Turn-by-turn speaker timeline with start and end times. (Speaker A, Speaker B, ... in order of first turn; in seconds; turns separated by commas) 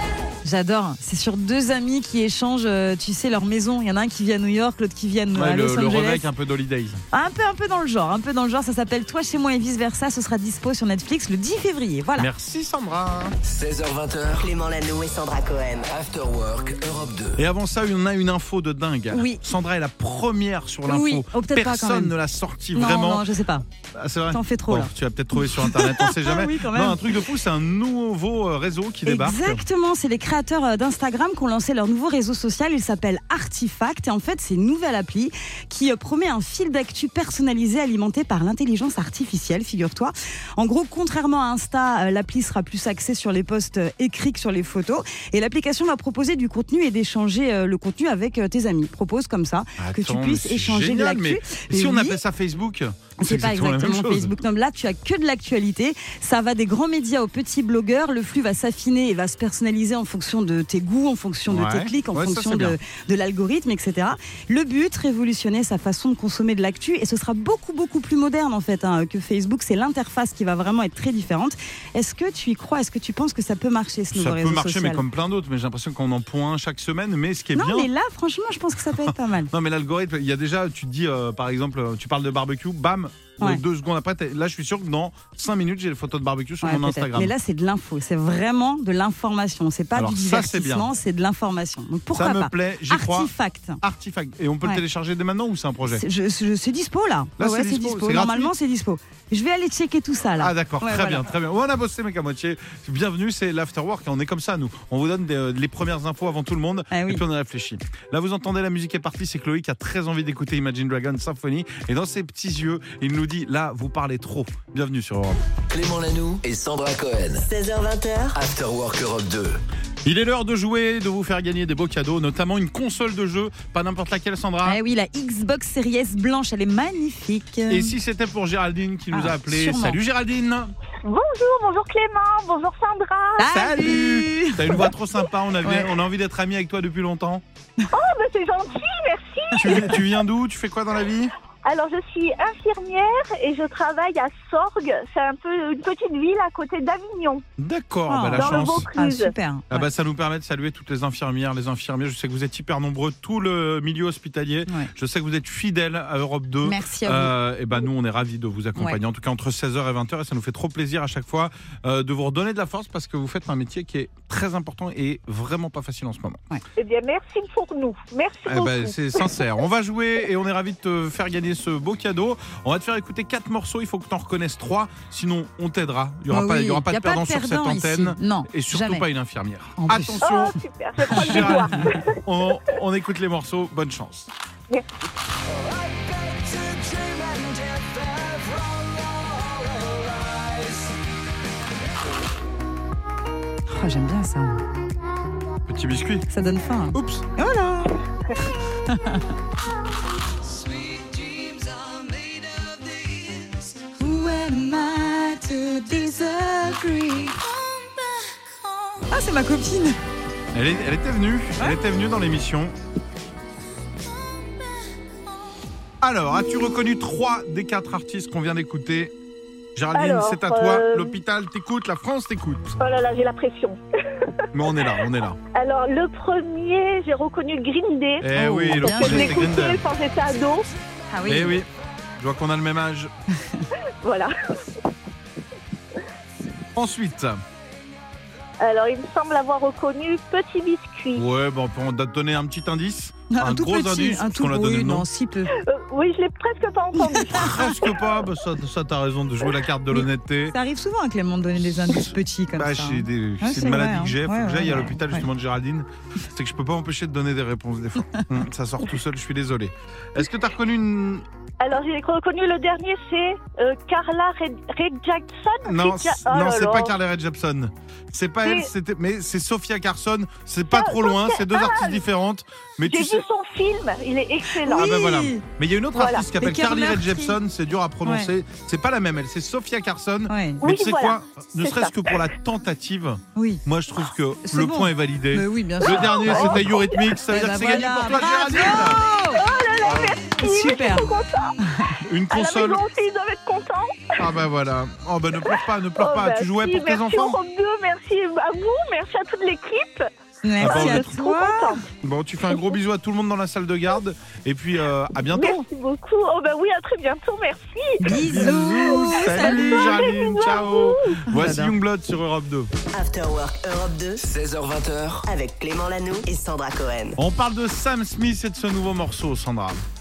Speaker A: 0.4-6.3, Speaker B: 5.3-7.0, Speaker A: 7.1-12.3, Speaker B: 12.2-13.4, Speaker C: 13.4-14.5, Speaker D: 14.3-15.9, Speaker C: 15.8-17.4, Speaker B: 17.4-23.2, Speaker A: 19.1-19.4, Speaker A: 20.9-22.1, Speaker A: 22.7-23.6, Speaker B: 23.9-29.6, Speaker A: 24.3-27.1, Speaker A: 29.0-52.2, Speaker B: 49.8-54.4, Speaker A: 53.2-75.0, Speaker B: 61.5-62.8, Speaker B: 74.1-77.9, Speaker A: 77.5-79.5, Speaker B: 78.9-87.3, Speaker A: 86.6-93.8, Speaker B: 89.9-90.9, Speaker B: 92.1-96.0, Speaker A: 95.9-101.2, Speaker B: 97.4-98.5, Speaker B: 100.4-115.4, Speaker A: 106.9-107.2, Speaker C: 115.7-117.5, Speaker D: 117.3-118.4, Speaker C: 118.3-119.6, Speaker B: 120.0-124.8, Speaker A: 124.6-128.0, Speaker B: 127.7-130.7, Speaker A: 129.1-130.0, Speaker E: 131.0-133.5, Speaker A: 133.4-134.9, Speaker B: 133.5-137.4, Speaker A: 135.6-135.9, Speaker E: 137.9-139.8, Speaker B: 139.6-141.3, Speaker E: 141.6-147.4, Speaker B: 147.6-148.9, Speaker A: 148.1-149.9, Speaker E: 148.3-149.3, Speaker B: 149.7-166.4, Speaker A: 156.6-157.3, Speaker E: 166.8-169.5, Speaker B: 168.4-184.3, Speaker A: 176.3-179.1, Speaker A: 179.8-180.2, Speaker E: 180.2-182.1, Speaker A: 181.1-181.8, Speaker A: 193.7-194.6, Speaker B: 195.7-196.3, Speaker A: 196.3-198.0, Speaker B: 196.9-197.2, Speaker A: 198.9-199.2, Speaker A: 203.8-207.4, Speaker A: 209.1-210.0, Speaker B: 210.5-212.7, Speaker B: 216.0-219.1, Speaker B: 219.8-222.8, Speaker E: 219.9-221.2, Speaker E: 222.8-225.0, Speaker B: 224.5-225.4, Speaker E: 225.5-230.7, Speaker B: 228.2-229.8, Speaker A: 228.4-229.4, Speaker A: 231.1-231.6, Speaker B: 231.3-231.7, Speaker B: 232.2-233.1, Speaker E: 234.0-234.8, Speaker B: 236.8-237.4, Speaker E: 238.6-241.2, Speaker B: 241.1-245.1, Speaker A: 243.3-245.5, Speaker E: 245.6-247.9, Speaker B: 247.1-250.5, Speaker A: 249.9-255.3, Speaker B: 251.9-261.2, Speaker E: 261.6-266.9, Speaker B: 265.6-273.2, Speaker E: 268.4-268.7, Speaker E: 270.7-272.0, Speaker E: 272.9-274.9, Speaker A: 274.6-275.4, Speaker B: 274.7-289.1, Speaker E: 276.0-276.3, Speaker A: 276.4-277.4, Speaker A: 278.0-278.3, Speaker A: 280.3-280.6, Speaker E: 280.6-282.3, Speaker A: 283.4-283.6, Speaker A: 284.4-286.6, Speaker E: 285.9-287.1, Speaker A: 287.3-289.4, Speaker E: 289.3-291.5, Speaker B: 289.8-290.2, Speaker A: 290.4-291.1, Speaker B: 292.0-292.8, Speaker E: 292.3-294.2, Speaker B: 294.2-297.4, Speaker E: 296.0-300.1, Speaker A: 300.4-301.8, Speaker B: 300.6-301.1, Speaker E: 300.6-301.8, Speaker B: 302.0-305.6, Speaker E: 302.5-302.7, Speaker E: 305.3-308.1, Speaker A: 308.0-310.0, Speaker B: 308.1-312.7, Speaker E: 308.7-311.2, Speaker A: 311.3-311.7, Speaker D: 312.9-314.2, Speaker C: 314.2-315.3, Speaker D: 315.2-317.2, Speaker B: 317.2-319.8